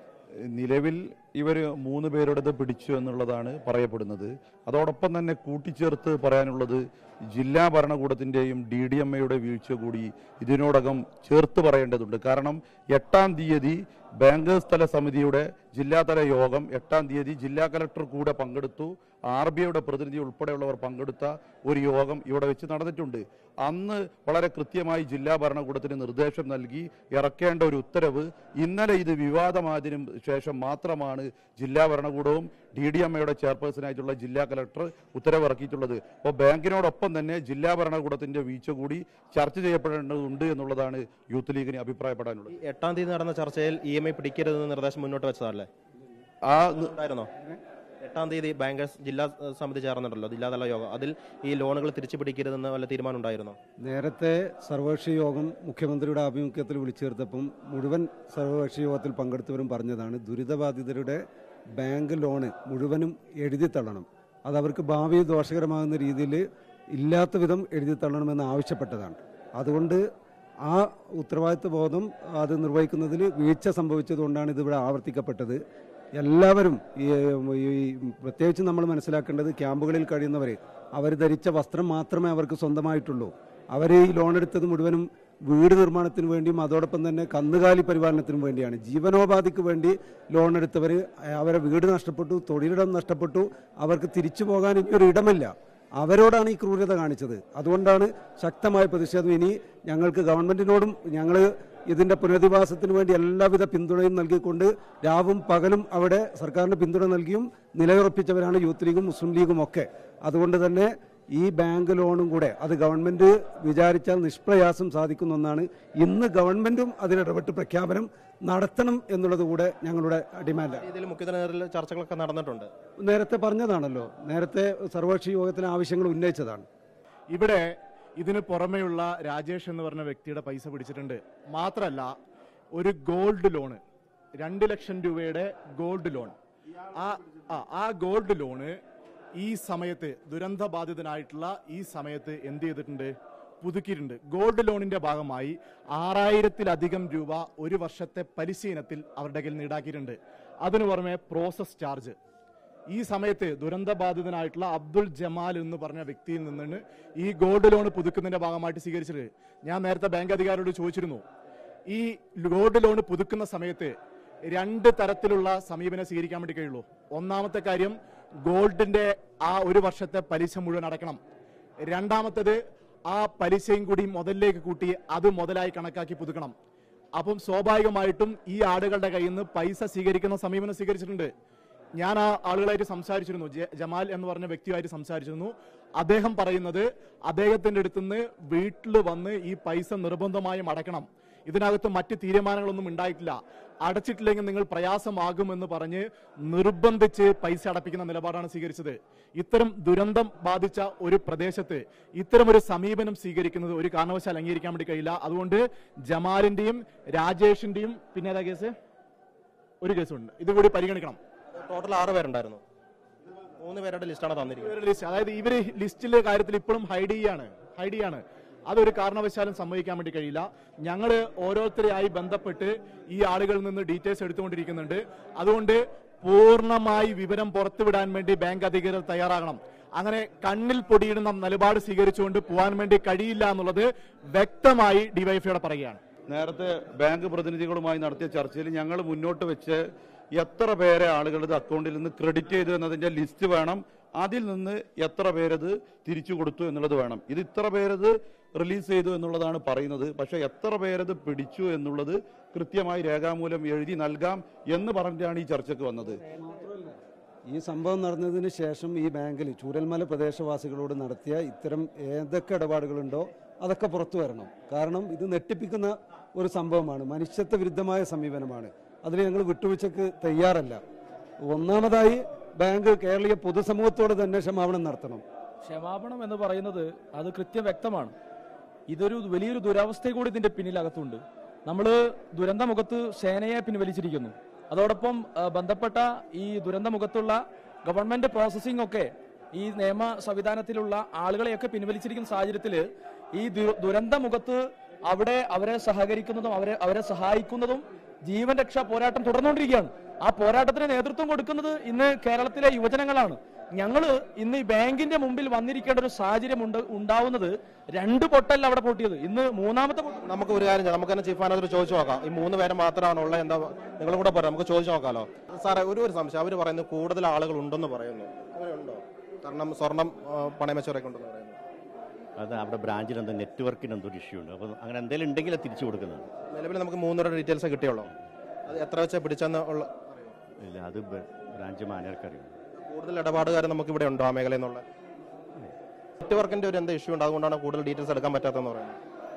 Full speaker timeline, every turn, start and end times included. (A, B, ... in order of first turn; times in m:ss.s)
0:00.5-0:42.6 A
0:42.5-0:45.7 B
0:46.5-0:46.9 A
0:46.8-0:47.3 B
0:48.0-0:53.6 B
0:53.8-1:01.2 C
1:01.8-1:06.4 C
1:07.0-1:10.0 C
1:10.7-1:15.6 C
1:16.2-2:00.9 C
2:00.7-2:02.7 B
2:03.0-2:06.7 C
2:07.3-2:12.1 D
2:12.8-2:13.8 D
2:14.4-2:16.4 D
2:17.0-2:18.8 D
2:19.4-2:32.2 D
2:32.9-2:41.2 D
2:41.9-2:43.9 D
2:44.5-2:48.0 D
2:48.5-2:51.2 D
2:51.9-2:52.6 D
2:53.1-2:56.5 D
2:57.2-3:01.3 D
3:02.0-3:28.7 D
3:29.8-3:31.2 D
3:31.6-3:32.6 B
3:33.6-3:34.8 B
3:34.6-3:56.0 D
3:56.3-3:59.8 A
4:00.4-4:16.2 A
4:16.3-4:16.9 C
4:17.5-4:30.8 C
4:31.5-4:35.2 C
4:35.6-4:38.1 E
4:38.9-5:10.2 E
5:10.2-5:21.6 B
5:22.4-5:26.3 F
5:26.5-5:28.1 B
5:28.7-5:30.4 B
5:30.6-5:32.6 F
5:32.8-5:34.8 B
5:36.2-5:39.0 B